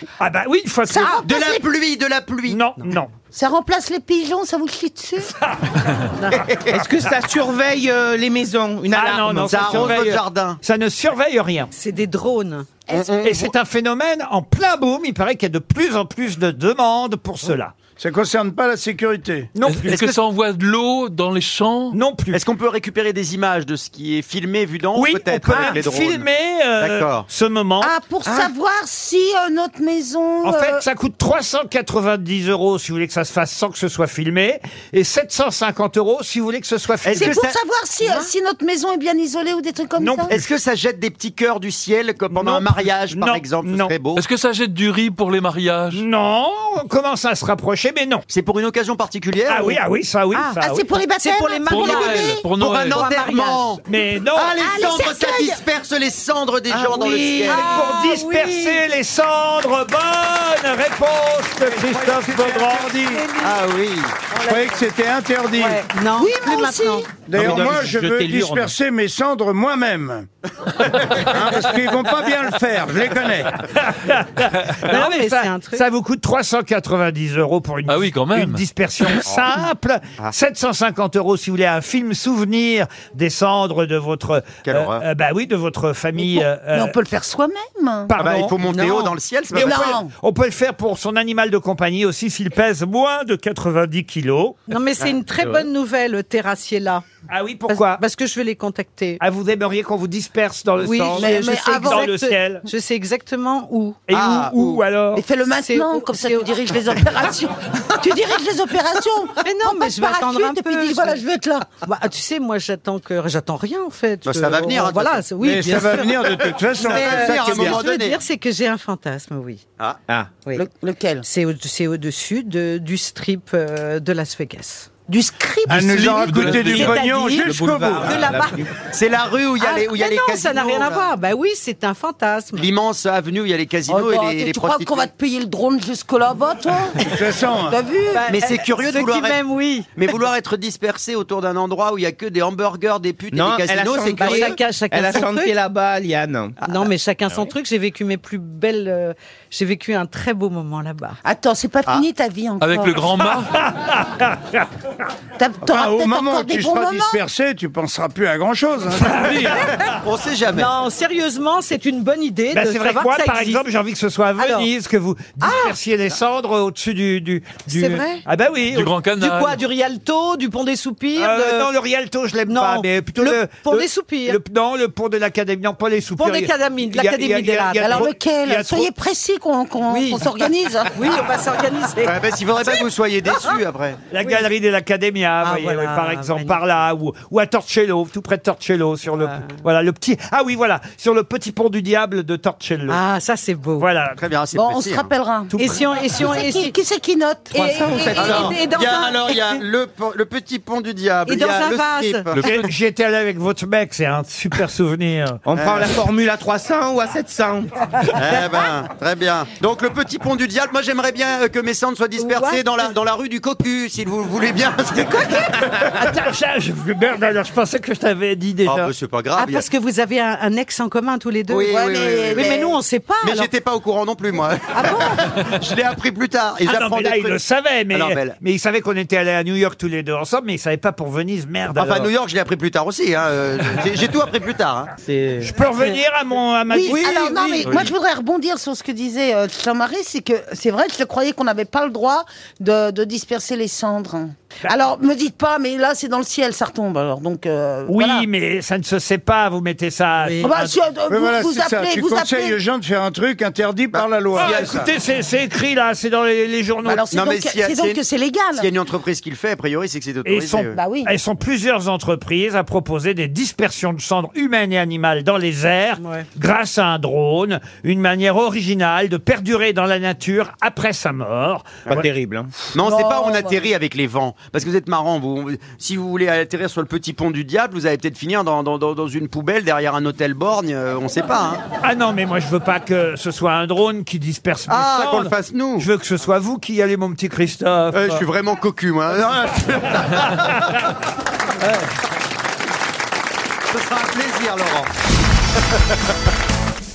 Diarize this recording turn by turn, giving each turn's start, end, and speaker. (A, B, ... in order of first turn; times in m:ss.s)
0:00.2-0:01.2 A
0:00.9-0:01.7 B
0:01.2-0:02.6 C
0:02.5-0:03.1 A
0:03.3-0:05.3 B
0:06.2-0:06.5 D
0:06.6-0:10.0 E
0:08.9-0:11.7 A
0:09.5-0:10.6 C
0:11.7-0:12.8 D
0:12.9-0:13.5 C
0:13.2-0:17.7 A
0:18.0-0:19.5 F
0:19.6-0:20.0 A
0:19.7-0:22.0 G
0:19.9-0:20.2 C
0:21.9-0:22.4 A
0:22.3-0:26.3 C
0:25.0-0:27.9 A
0:26.8-0:27.3 C
0:27.8-0:30.8 B
0:30.4-0:37.4 A
0:37.0-0:37.6 C
0:37.2-0:40.3 B
0:40.0-0:40.5 A
0:40.3-0:44.2 C
0:42.3-0:43.9 A
0:44.2-0:46.0 G
0:45.9-0:48.2 A
0:48.3-0:49.8 C
0:49.5-0:50.8 A
0:50.6-0:52.4 B
0:51.2-0:53.7 D
0:51.7-0:53.1 G
0:52.6-0:53.8 C
0:53.9-0:54.6 A
0:54.3-0:57.8 C
0:54.6-0:55.6 B
0:56.7-0:58.8 D
0:57.4-1:03.0 A
1:01.7-1:03.3 F
1:03.1-1:03.5 D
1:03.4-1:04.2 C
1:04.3-1:04.8 D
1:04.4-1:05.9 F
1:05.6-1:07.1 D
1:06.2-1:07.1 B
1:07.2-1:10.3 F
1:07.3-1:08.7 E
1:11.0-1:13.6 F
1:13.7-1:27.0 A
1:14.8-1:15.8 D
1:17.9-1:18.6 G
1:19.3-1:19.5 C
1:24.6-1:25.0 C
1:26.2-1:28.1 B
1:28.1-1:28.6 A
1:28.2-1:30.0 C
1:28.6-1:29.1 D
1:29.5-1:30.1 B
1:29.5-1:34.6 A
1:34.7-1:37.0 D
1:37.3-1:38.0 A
1:37.7-1:39.2 D
1:39.2-1:42.7 A
1:40.8-1:44.0 D
1:41.2-1:42.1 B
1:44.1-1:45.2 A
1:44.1-1:44.8 C
1:45.2-1:51.8 B
1:45.5-1:46.6 D
1:49.4-1:51.2 D
1:51.8-1:59.6 D
1:54.2-1:55.3 C
1:55.4-1:57.8 F
1:56.8-1:58.2 C
2:00.6-2:01.2 B
2:01.2-2:04.9 D
2:05.1-2:06.5 B
2:05.7-2:08.3 F
2:06.3-2:06.8 G
2:06.3-2:08.7 E
2:06.6-2:08.7 D
2:08.9-2:11.1 C
2:09.6-2:12.7 D
2:12.5-2:15.1 C
2:13.9-2:17.2 B
2:17.1-2:17.8 F
2:17.7-2:18.3 B
2:18.1-2:19.9 D
2:18.3-2:19.4 C
2:20.0-2:24.6 C
2:23.3-2:26.6 E
2:24.2-2:25.6 D
2:26.6-2:31.2 D
2:31.2-2:33.1 B
2:32.6-2:33.5 G
2:33.4-2:34.7 A
2:35.4-2:37.2 B
2:35.6-2:39.6 F
2:39.1-2:39.5 A
2:39.9-2:40.7 C
2:40.5-2:43.6 D
2:42.5-2:48.9 A
2:44.4-2:44.7 D
2:45.4-2:45.8 D
2:47.7-2:48.2 D
2:48.7-2:49.6 G
2:49.2-2:51.7 D
2:51.2-2:58.9 A
2:52.5-2:54.4 D
2:56.2-2:58.1 D
2:57.8-3:01.1 B
2:59.9-3:00.4 D
3:00.9-3:02.8 D
3:02.0-3:04.0 C
3:04.1-3:13.0 A
3:05.4-3:06.6 D
3:09.2-3:09.6 D
3:12.9-3:13.9 D
3:13.8-3:14.2 A
3:14.2-3:15.1 C
3:14.6-3:18.5 B
3:15.5-3:15.8 A
3:15.6-3:16.8 D
3:17.5-3:18.6 E
3:17.6-3:19.6 D
3:18.2-3:22.6 C
3:21.3-3:22.3 D
3:22.4-3:25.4 A
3:25.5-3:27.7 E
3:25.6-3:26.0 C
3:28.1-3:35.4 C
3:32.2-3:32.7 D
3:35.9-3:38.9 A
3:38.6-3:39.7 C
3:39.4-3:43.5 D
3:41.5-3:47.4 C
3:41.7-3:42.8 B
3:44.8-3:45.2 D
3:46.6-3:52.1 A
3:47.9-3:48.4 C
3:51.8-3:54.9 C
3:55.0-3:55.5 E
3:55.4-3:57.5 A
3:56.7-4:08.3 B
3:56.9-3:57.7 D
3:57.6-3:57.9 C
4:07.9-4:10.8 A
4:10.2-4:10.5 D
4:10.4-4:12.6 B
4:11.1-4:14.9 F
4:13.9-4:14.8 C
4:14.4-4:17.0 A
4:16.8-4:18.7 B
4:17.1-4:18.0 C
4:18.6-4:20.8 C
4:20.2-4:31.8 A
4:20.7-4:21.1 B
4:26.0-4:26.3 D
4:31.9-4:32.5 E
4:32.7-4:41.6 C
4:32.8-4:33.6 B
4:41.8-4:48.2 A
4:44.7-4:45.9 C
4:47.9-4:50.6 C
4:53.7-4:54.9 C